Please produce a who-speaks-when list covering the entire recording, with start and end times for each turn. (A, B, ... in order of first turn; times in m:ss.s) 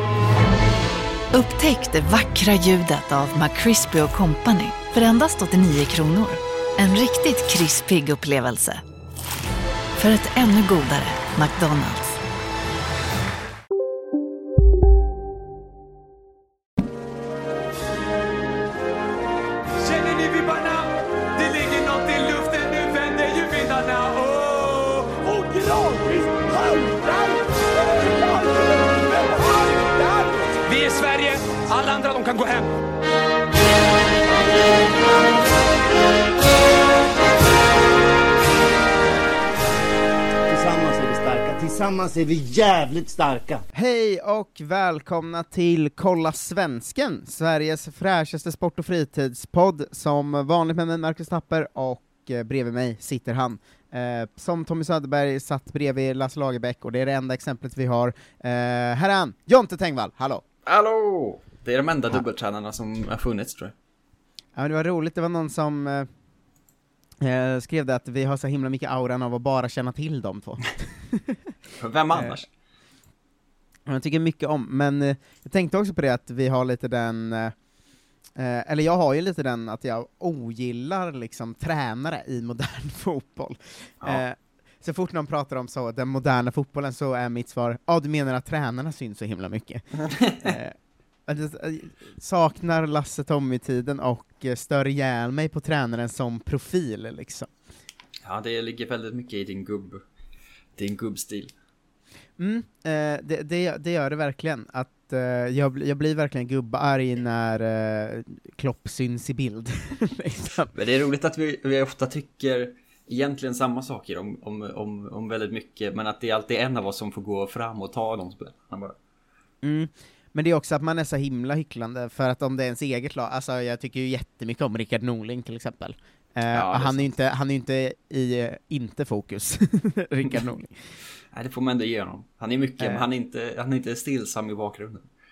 0:01.3-0:08.8 A
0:10.0-0:12.2 A
0:19.8-0:26.0 B
0:30.6-0:32.8 B
0:40.5-0:43.6 C
0:43.7-1:00.4 D
1:00.6-1:03.7 E
1:04.6-1:06.1 D
1:07.2-1:11.4 D
1:11.8-1:12.5 E
1:12.1-1:12.4 D
1:13.8-1:17.5 D
1:18.4-1:29.8 D
1:30.1-1:30.5 E
1:30.4-1:30.8 D
1:31.3-1:37.5 D
1:38.2-1:40.0 E
1:40.8-1:41.5 E
1:42.4-1:50.7 D
1:50.7-1:59.0 E
1:59.6-2:10.8 D
2:06.5-2:07.1 E
2:11.3-2:15.1 E